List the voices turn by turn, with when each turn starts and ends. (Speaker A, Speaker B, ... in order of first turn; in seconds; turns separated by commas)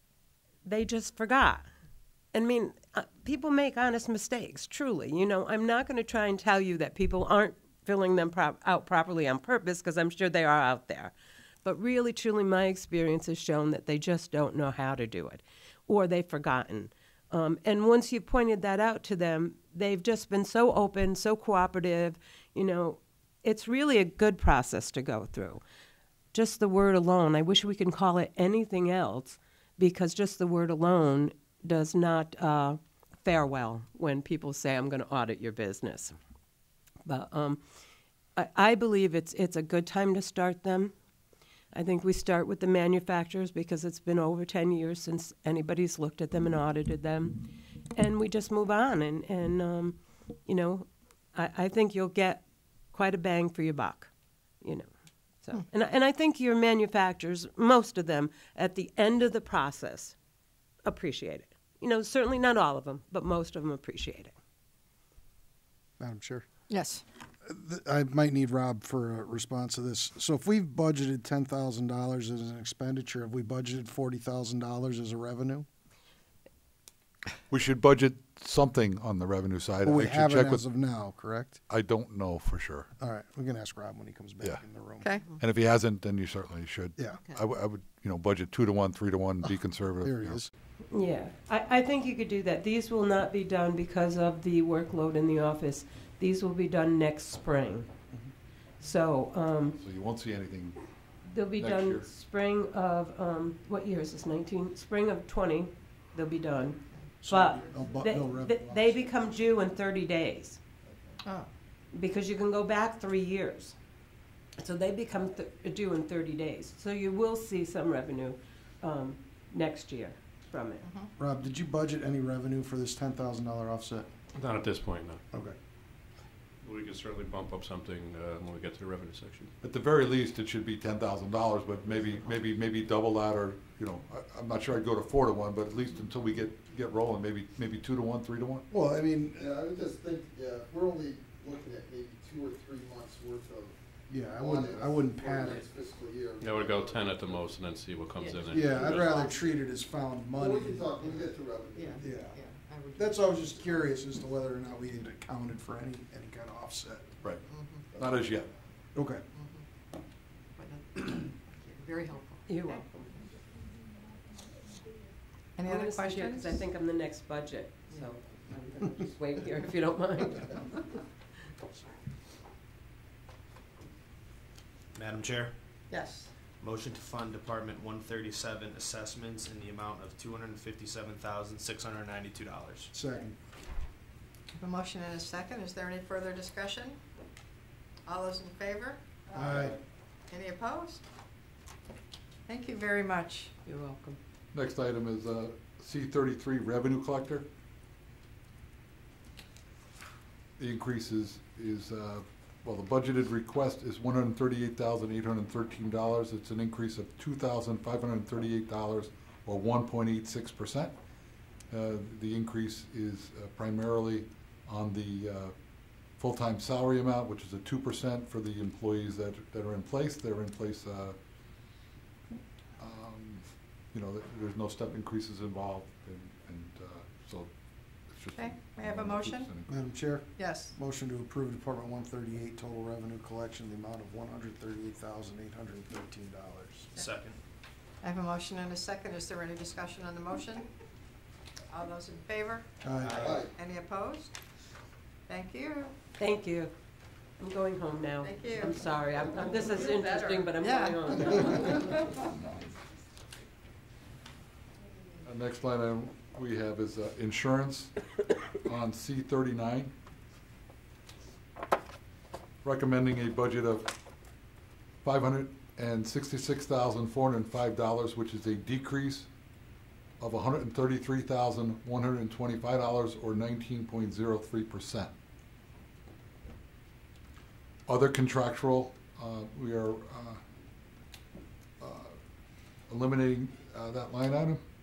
Speaker A: 0.6-1.7, Speaker A: 2.3-25.6, Speaker A: 26.3-36.1, Speaker A: 37.0-37.6, Speaker A: 38.4-40.9, Speaker A: 41.7-54.9, Speaker A: 55.4-60.1, Speaker A: 60.8-64.3, Speaker B: 66.0-66.5, Speaker C: 66.7-67.0, Speaker B: 67.4-75.7, Speaker D: 77.5-80.6, Speaker B: 79.8-81.6, Speaker D: 81.7-82.9, Speaker B: 83.0-85.1, Speaker C: 85.0-85.3, Speaker D: 85.4-90.4, Speaker B: 90.0-90.5, Speaker A: 90.9-97.9, Speaker A: 98.8-99.8, Speaker D: 99.7-100.8, Speaker A: 101.3-110.6, Speaker D: 101.6-102.1, Speaker B: 107.2-109.1, Speaker C: 111.2-111.5, Speaker A: 111.9-113.7, Speaker A: 114.6-120.8, Speaker C: 120.8-121.1, Speaker B: 121.2-124.1, Speaker E: 124.3-125.2, Speaker E: 126.6-129.5, Speaker D: 129.6-138.7, Speaker B: 138.7-139.4, Speaker F: 139.3-143.8, Speaker B: 144.1-145.7, Speaker F: 144.3-147.4, Speaker E: 146.4-149.3, Speaker C: 148.2-149.4, Speaker B: 148.5-151.3, Speaker F: 150.4-152.0, Speaker C: 151.7-153.6, Speaker B: 152.0-152.4, Speaker B: 152.9-157.1, Speaker C: 157.4-157.9, Speaker F: 157.9-158.2, Speaker D: 158.0-158.5, Speaker B: 158.9-159.2, Speaker C: 159.3-159.6, Speaker C: 160.6-162.9, Speaker A: 162.5-163.0, Speaker C: 165.6-166.6, Speaker A: 165.6-170.9, Speaker G: 174.9-175.6, Speaker C: 175.9-176.3, Speaker G: 176.6-182.9, Speaker B: 182.9-183.4, Speaker C: 184.6-187.0, Speaker C: 188.1-189.7, Speaker B: 189.3-189.8, Speaker C: 190.3-191.0, Speaker C: 192.5-193.5, Speaker A: 193.6-194.2, Speaker D: 194.5-197.5, Speaker D: 200.6-210.9, Speaker D: 211.7-215.5, Speaker D: 216.2-221.2, Speaker D: 222.8-227.5, Speaker D: 228.1-229.7, Speaker C: 228.3-229.5, Speaker B: 229.7-236.9, Speaker C: 230.4-230.7, Speaker G: 236.9-237.4, Speaker C: 238.0-240.7, Speaker C: 241.7-242.7, Speaker B: 242.8-243.5, Speaker G: 243.0-243.5, Speaker C: 243.3-244.3, Speaker C: 245.3-245.9, Speaker A: 246.2-246.7, Speaker A: 247.4-252.0, Speaker C: 248.2-248.7, Speaker C: 249.6-252.2, Speaker D: 255.2-257.9, Speaker D: 258.6-259.9, Speaker D: 262.6-263.9, Speaker D: 265.0-269.3, Speaker D: 270.2-275.1, Speaker D: 277.9-280.4, Speaker D: 281.8-282.1, Speaker D: 282.9-284.6